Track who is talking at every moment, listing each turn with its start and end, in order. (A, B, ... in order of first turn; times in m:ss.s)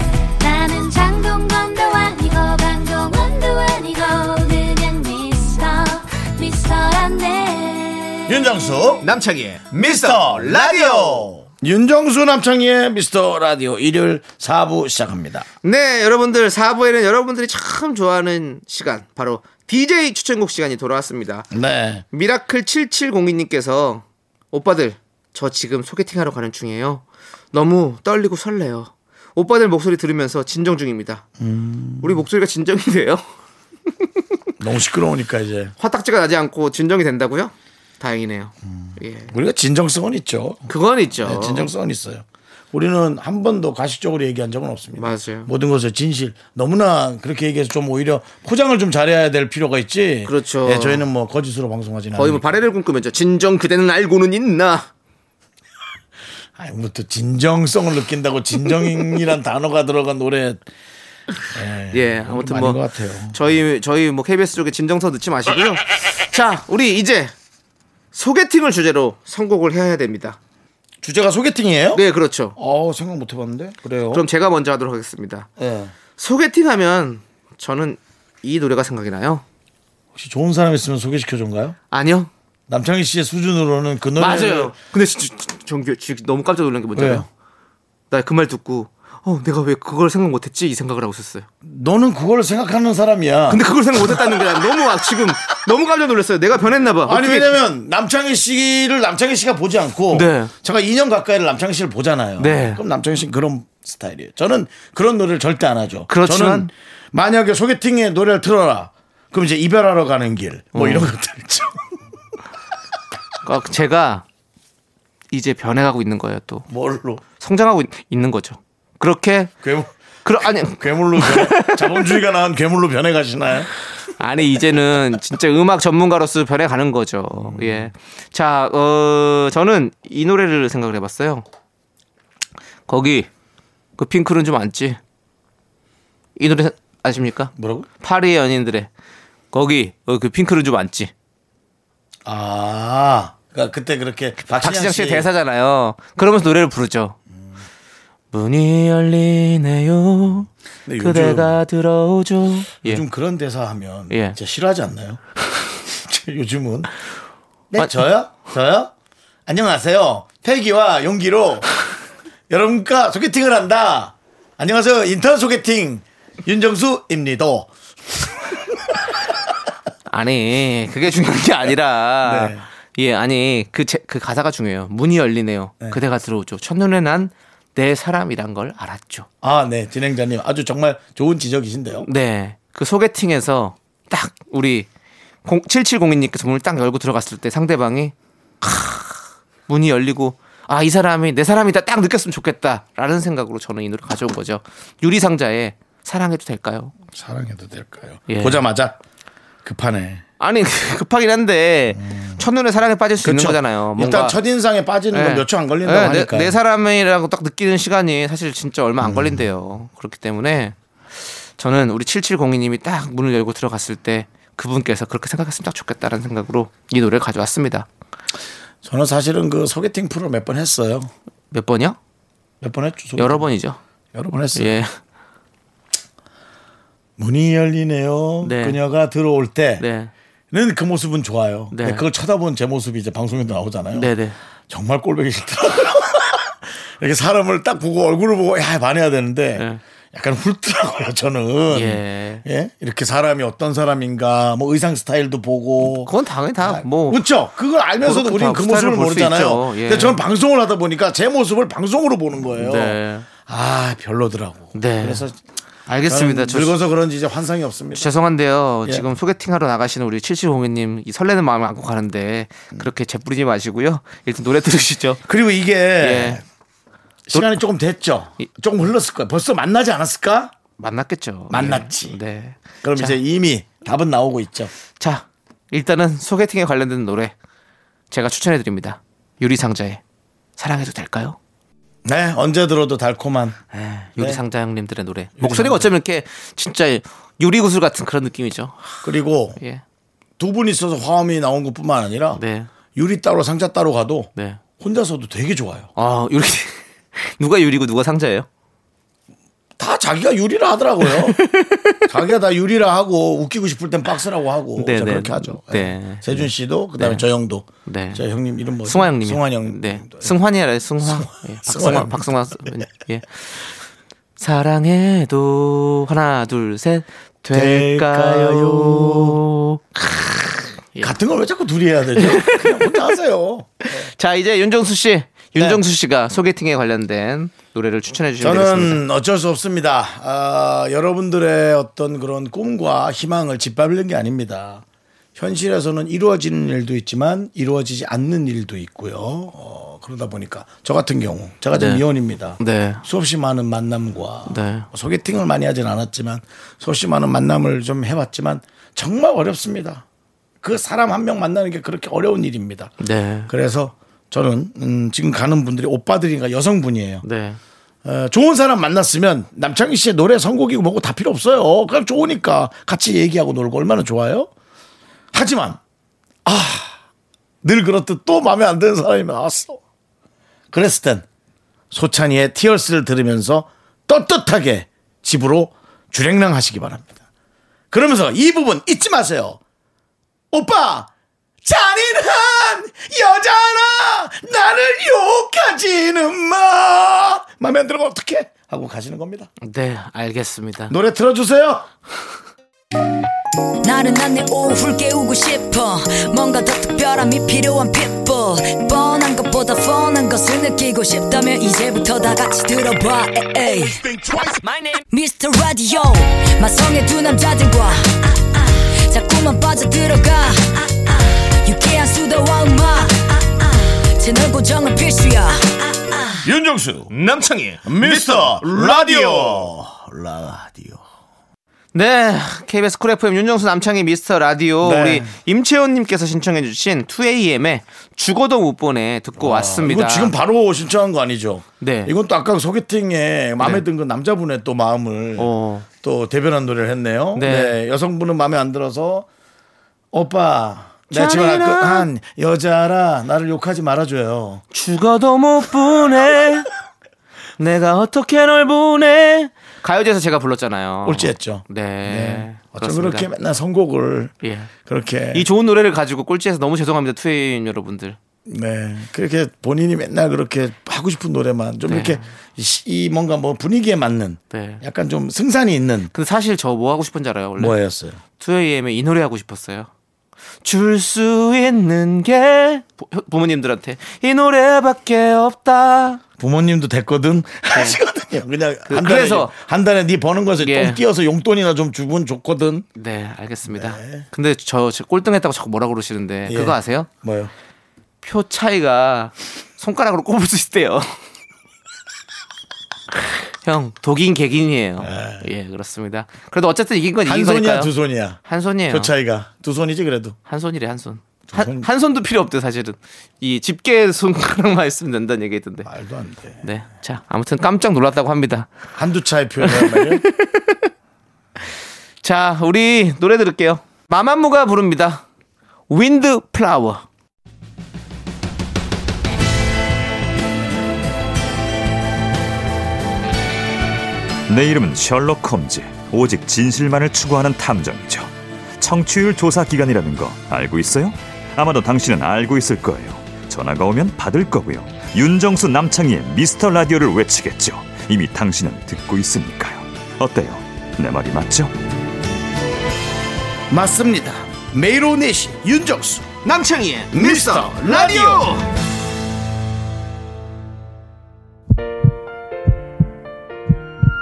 0:00.4-0:08.3 A
0:08.3-0:09.1 B
0:09.0-0:11.3 C
0:09.8-0:15.5 B
0:15.6-0:21.5 C
0:21.5-0:22.0 B
0:22.1-0:31.2 C
0:31.4-0:32.2 B
0:32.0-0:33.2 C
0:34.6-0:35.7 B
0:35.8-0:39.3 C
0:38.6-0:40.6 B
0:40.7-0:41.7 C
0:41.2-0:52.6 B
0:45.0-0:45.5 C
0:50.2-0:51.0 C
0:52.2-0:54.9 C
0:56.6-1:00.6 B
1:01.5-1:03.6 B
1:01.9-1:02.8 C
1:03.3-1:07.3 C
1:08.1-1:10.4 C
1:11.0-1:12.0 B
1:11.9-1:12.6 C
1:12.6-1:14.2 B
1:14.1-1:15.5 C
1:15.6-1:15.9 B
1:16.2-1:19.4 C
1:20.2-1:21.8 B
1:21.9-1:22.3 C
1:22.7-1:24.7 B
1:24.2-1:27.3 C
1:27.0-1:27.3 B
1:28.1-1:31.5 C
1:31.6-1:35.4 B
1:33.5-1:37.6 C
1:37.0-1:51.8 B
1:40.1-1:40.5 C
1:42.4-1:42.8 C
1:46.1-1:46.7 C
1:50.7-1:51.1 C
1:53.4-1:54.2 C
1:55.3-1:56.7 C
1:56.7-1:57.2 B
1:57.4-1:59.5 C
1:59.6-1:59.9 B
2:00.2-2:02.2 C
2:00.4-2:03.7 B
2:04.2-2:11.4 C
2:07.3-2:07.9 B
2:12.9-2:13.3 C
2:14.0-2:15.0 C
2:16.4-2:18.9 C
2:17.6-2:17.9 B
2:19.5-2:21.1 C
2:22.2-2:25.3 B
2:24.4-2:27.2 C
2:28.3-2:33.0 C
2:30.9-2:31.6 B
2:32.8-2:35.2 B
2:34.1-2:34.4 C
2:35.9-2:36.9 B
2:37.7-2:38.9 B
2:39.5-2:41.7 B
2:42.5-2:48.3 B
2:50.1-2:59.3 C
2:52.2-2:52.6 B
2:59.4-3:02.1 B
3:02.0-3:04.9 C
3:05.4-3:16.9 C
3:17.1-3:19.0 B
3:18.3-3:18.6 C
3:19.6-3:20.2 B
3:20.4-3:24.4 C
3:22.0-3:22.4 B
3:23.2-3:26.6 B
3:25.1-3:30.8 C
3:29.0-3:29.4 B
3:31.6-3:37.9 C
3:38.8-3:41.1 B
3:41.5-3:42.0 C
3:42.6-3:43.5 B
3:43.2-3:43.8 C
3:44.1-3:44.8 B
3:44.6-3:44.9 C
3:47.2-3:49.8 B
3:48.4-3:48.8 C
3:49.8-3:50.1 C
3:50.5-3:54.1 B
3:51.7-3:52.0 C
3:53.9-3:54.4 C
3:54.7-4:15.4 B
4:01.7-4:02.4 C
4:05.8-4:07.2 C
4:08.0-4:10.2 C
4:12.6-4:13.3 C
4:14.8-4:15.2 C
4:15.9-4:16.8 C
4:16.0-4:18.1 B
4:18.0-4:25.2 C
4:25.3-4:26.4 B
4:26.0-4:26.4 C
4:27.3-4:30.6 B
4:27.3-4:27.6 C
4:30.8-4:33.2 C
4:31.5-4:32.2 B
4:32.8-4:34.7 B
4:35.0-4:37.3 C
4:38.1-4:40.0 C
4:40.6-4:41.4 C
4:42.0-4:43.6 B
4:43.7-4:49.0 C
4:45.4-4:45.9 B
4:49.0-4:49.6 B
4:50.4-4:52.4 B
4:52.4-4:52.7 C
4:53.0-4:55.9 B
4:56.0-4:58.5 C
4:59.8-5:01.4 B
5:01.0-5:02.0 C
5:02.1-5:10.4 B
5:04.8-5:06.5 C
5:07.0-5:07.2 C
5:07.9-5:08.2 C
5:08.9-5:13.3 C
5:11.0-5:12.8 B
5:14.4-5:21.2 C
5:17.5-5:19.4 B
5:21.0-5:24.1 B
5:22.2-5:23.1 C
5:23.8-5:29.0 C
5:25.6-5:25.8 B
5:28.4-5:34.8 B
5:35.4-5:50.0 B
5:41.7-5:42.0 C
5:42.6-5:43.0 C
5:44.5-5:44.9 C
5:50.6-5:53.0 B
5:53.0-5:53.5 C
5:53.5-5:57.2 B
5:57.2-5:57.6 C
5:58.0-6:04.5 B
6:05.3-6:05.8 B
6:06.4-6:07.0 B
6:07.6-6:09.8 B
6:10.7-6:11.3 B
6:11.9-6:17.2 B
6:17.9-6:19.6 B
6:20.5-6:21.1 B
6:21.6-6:29.5 B
6:29.6-6:31.0 C
6:30.9-6:31.9 B
6:33.8-6:44.1 D
6:45.1-6:56.5 D
6:56.4-6:57.1 B
6:57.1-6:59.7 C
6:57.8-7:01.0 B
7:01.9-7:10.3 C
7:04.8-7:05.3 B
7:09.4-7:15.5 B
7:11.8-7:12.1 C
7:15.4-7:15.9 C
7:16.0-7:19.3 B
7:17.4-7:17.8 C
7:20.1-7:24.6 B
7:21.1-7:22.1 C
7:24.7-7:26.7 C
7:27.6-7:33.3 C
7:31.0-7:34.3 B
7:34.4-7:34.7 C
7:34.8-7:35.5 B
7:35.3-7:38.2 C
7:38.5-7:46.1 B
7:41.9-7:42.2 C
7:44.5-7:44.8 C
7:46.1-7:47.8 C
7:47.6-7:48.2 B
7:48.4-7:49.9 C
7:50.6-7:56.2 C
7:56.4-8:02.9 B
7:57.7-7:58.0 C
7:58.9-7:59.5 C
8:00.6-8:01.0 C
8:03.0-8:07.1 C
8:03.7-8:04.3 B
8:06.5-8:07.5 B
8:08.2-8:11.2 C
8:13.6-8:17.9 C
8:15.0-8:15.5 B
8:17.2-8:20.4 B
8:18.4-8:19.1 C
8:20.5-8:25.9 C
8:21.5-8:21.9 B
8:25.8-8:26.6 B
8:26.6-8:28.7 C
8:29.0-8:30.2 B
8:29.6-8:30.9 C
8:32.2-8:35.2 C
8:35.9-8:37.0 C
8:44.5-9:01.7 E
9:03.7-9:06.3 B
9:06.4-9:08.7 C
9:07.1-9:08.6 B